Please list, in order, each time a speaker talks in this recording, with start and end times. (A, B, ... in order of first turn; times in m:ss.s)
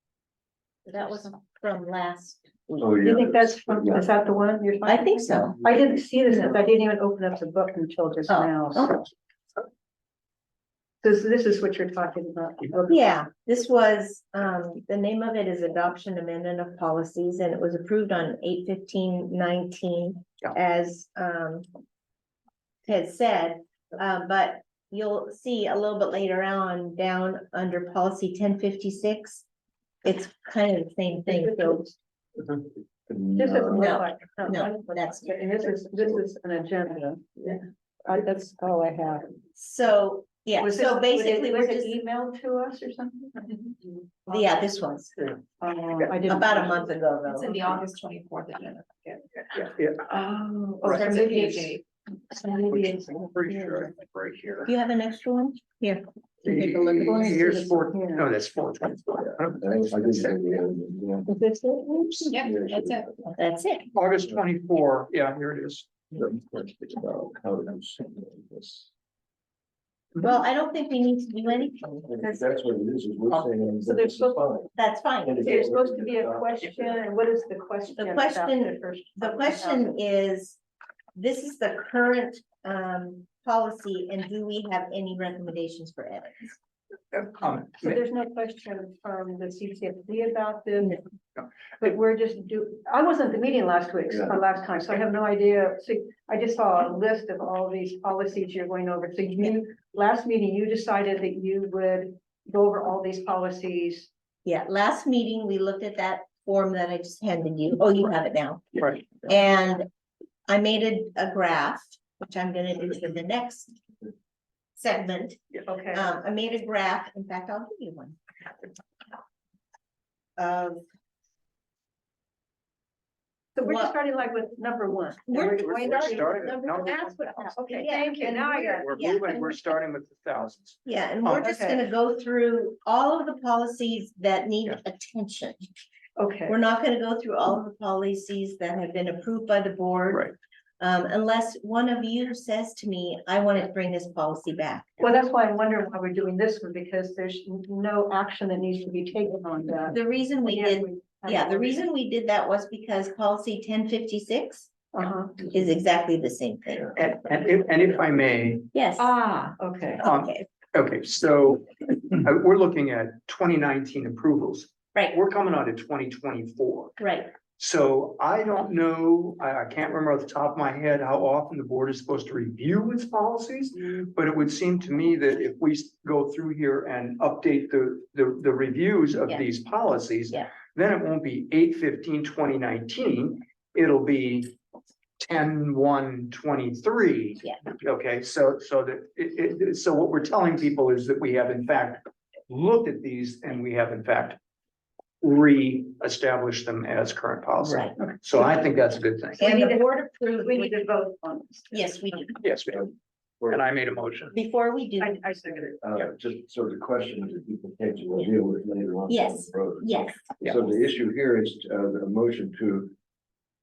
0:00.8-0:03.0 A
0:02.8-0:04.0 B
0:03.0-0:09.1 C
0:04.9-0:05.6 A
0:06.3-0:06.6 A
0:08.3-0:09.0 A
0:11.0-0:13.0 C
0:12.9-0:21.7 A
0:22.8-0:29.4 A
0:30.0-0:31.9 A
0:33.1-0:33.8 B
0:33.4-0:39.3 C
0:33.7-0:35.4 A
0:39.6-0:42.0 A
0:40.6-0:44.5 C
0:44.3-0:45.2 A
0:45.6-0:46.8 C
0:46.3-0:47.6 A
0:47.4-0:49.2 D
0:49.5-0:50.1 E
0:50.3-0:51.8 D
0:50.4-0:51.6 C
0:50.9-0:51.6 A
0:52.7-0:54.7 E
0:54.7-0:57.6 A
0:56.4-1:00.4 E
0:56.5-0:58.3 C
0:59.4-1:01.4 B
1:01.3-1:02.2 C
1:02.2-1:03.0 D
1:02.3-1:03.3 B
1:03.4-1:03.9 A
1:03.9-1:05.9 E
1:06.1-1:08.9 B
1:10.2-1:12.6 A
1:12.1-1:14.7 B
1:13.8-1:14.4 C
1:14.8-1:15.6 A
1:15.2-1:17.0 B
1:15.4-1:19.9 C
1:18.0-1:20.6 A
1:21.2-1:26.5 A
1:27.1-1:28.0 E
1:27.8-1:31.0 C
1:31.8-1:44.1 C
1:44.4-1:49.9 A
1:48.8-1:49.1 E
1:50.5-1:53.8 A
1:54.8-1:58.2 A
1:55.7-1:56.1 C
2:00.4-2:00.8 A
2:03.6-2:09.4 C
2:03.7-2:03.9 A
2:05.3-2:09.5 A
2:05.5-2:07.2 E
2:08.5-2:11.5 E
2:10.9-2:15.7 A
2:11.4-2:11.8 C
2:16.2-2:16.6 C
2:16.5-2:20.3 A
2:20.8-2:25.0 A
2:25.0-2:31.9 C
2:29.9-2:34.7 A
2:34.9-2:35.5 C
2:35.5-2:37.0 A
2:36.9-2:38.7 E
2:38.7-2:39.1 A
2:39.0-2:40.0 C
2:40.0-2:40.5 A
2:40.0-2:47.0 E
2:47.0-2:47.3 A
2:47.6-3:04.6 E
3:05.2-3:14.4 E
3:15.2-3:19.5 E
3:17.6-3:18.7 A
3:19.4-3:20.9 A
3:19.4-3:21.9 C
3:21.7-3:22.4 A
3:22.4-3:22.9 E
3:23.5-3:24.3 E
3:24.3-3:25.2 A
3:25.0-3:25.8 C
3:25.8-3:32.9 B
3:29.1-3:30.2 A
3:30.4-3:30.7 E